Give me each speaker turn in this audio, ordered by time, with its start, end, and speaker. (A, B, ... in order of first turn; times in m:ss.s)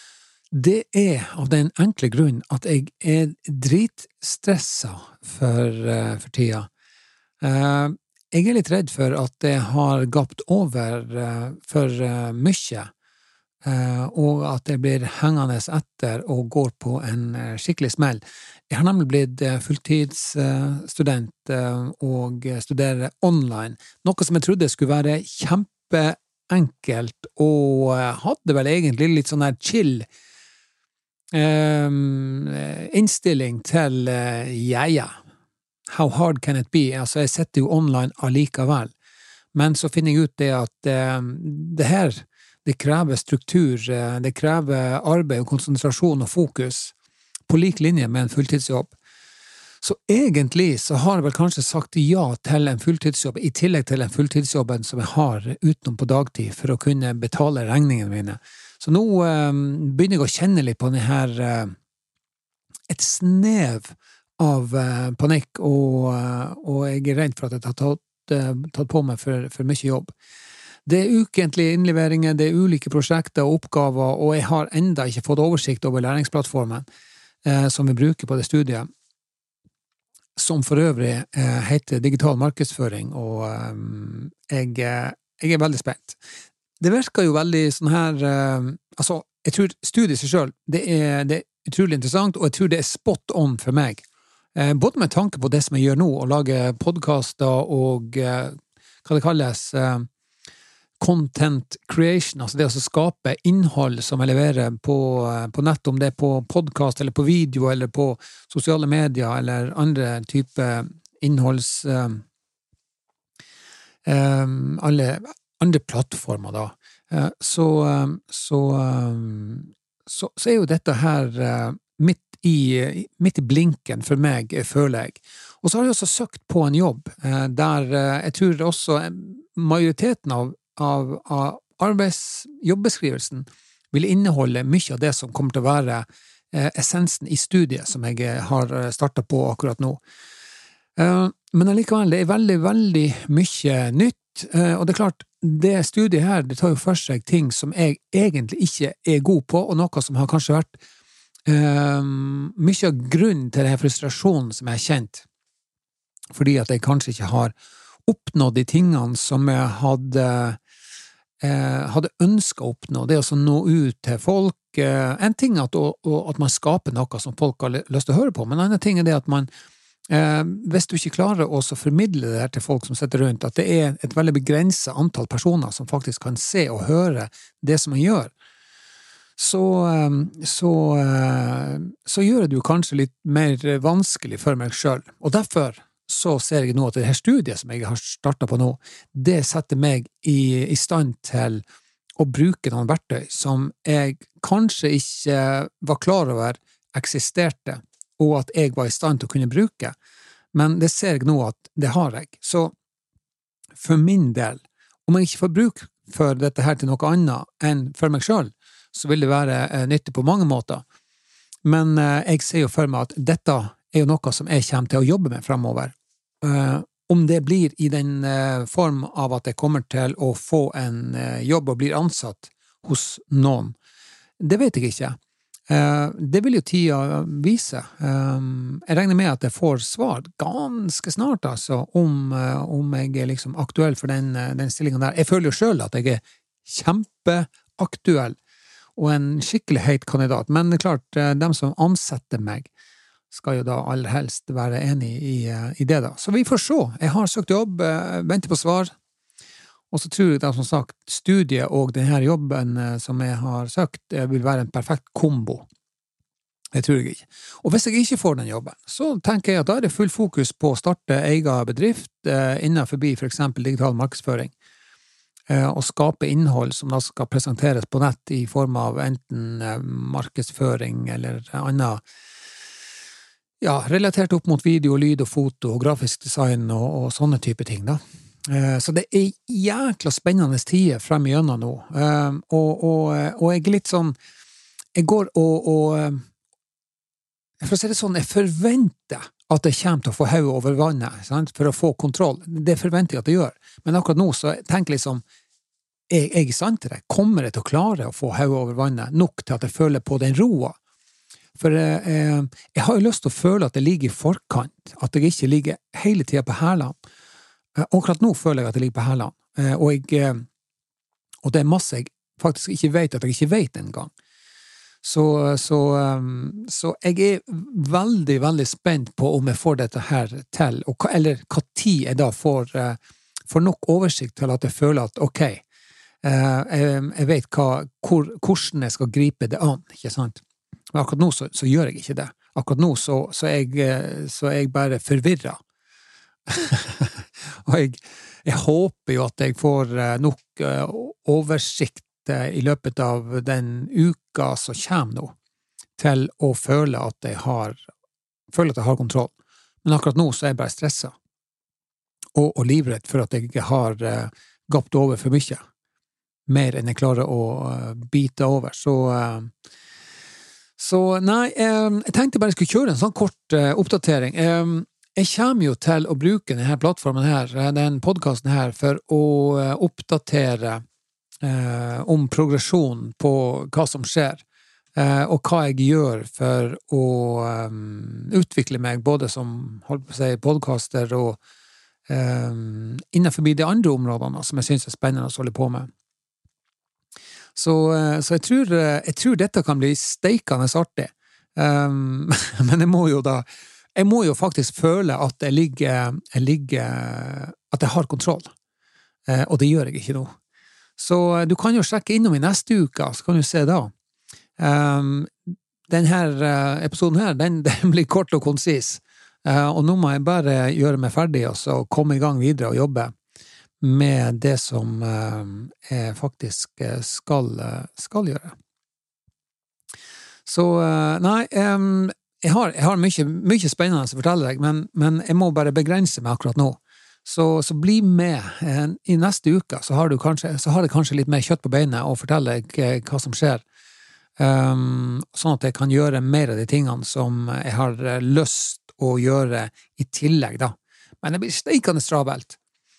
0:00.5-0:06.7 A
0:07.4-0:12.9 A
0:13.6-0:30.0 A
0:31.3-0:35.2 A
0:35.9-0:38.9 A
0:39.5-0:46.9 A
0:47.5-0:48.9 A
0:49.8-1:01.7 A
1:02.9-1:10.1 A
1:10.8-1:16.8 A
1:17.4-1:18.9 A
1:20.4-1:26.2 A
1:26.8-1:40.1 A
1:41.0-1:52.2 A
1:54.0-2:20.0 A
2:21.0-2:30.8 A
2:31.5-2:35.2 A
2:36.3-2:37.5 A
2:38.1-2:40.6 A
2:41.4-2:49.5 A
2:50.1-2:58.3 A
2:59.4-3:11.6 A
3:12.2-3:19.9 A
3:20.5-3:22.7 A
3:23.8-3:30.8 A
3:31.6-3:43.8 A
3:44.4-3:45.2 A
3:45.7-3:58.4 A
3:59.0-4:02.7 A
4:03.3-4:08.9 A
4:09.9-4:15.6 A
4:16.7-4:24.5 A
4:25.5-4:32.0 A
4:33.6-4:44.2 A
4:44.9-4:46.2 A
4:47.6-4:55.2 A
4:56.1-5:00.8 A
5:01.6-5:07.0 A
5:07.8-5:10.4 A
5:11.4-5:14.1 A
5:15.0-5:23.0 A
5:23.5-5:25.6 A
5:26.2-5:30.4 A
5:30.9-5:35.6 A
5:36.5-5:45.3 A
5:46.0-5:47.8 A
5:48.5-5:49.3 A
5:49.8-5:51.1 A
5:52.3-5:55.6 A
5:56.5-5:59.5 A
6:00.8-6:10.8 A
6:11.4-6:21.4 A
6:22.1-6:25.9 A
6:27.5-6:38.5 A
6:39.3-6:40.3 A
6:41.0-6:43.9 A
6:44.6-6:53.1 A
6:53.8-6:58.5 A
7:00.4-7:13.6 A
7:14.4-7:22.6 A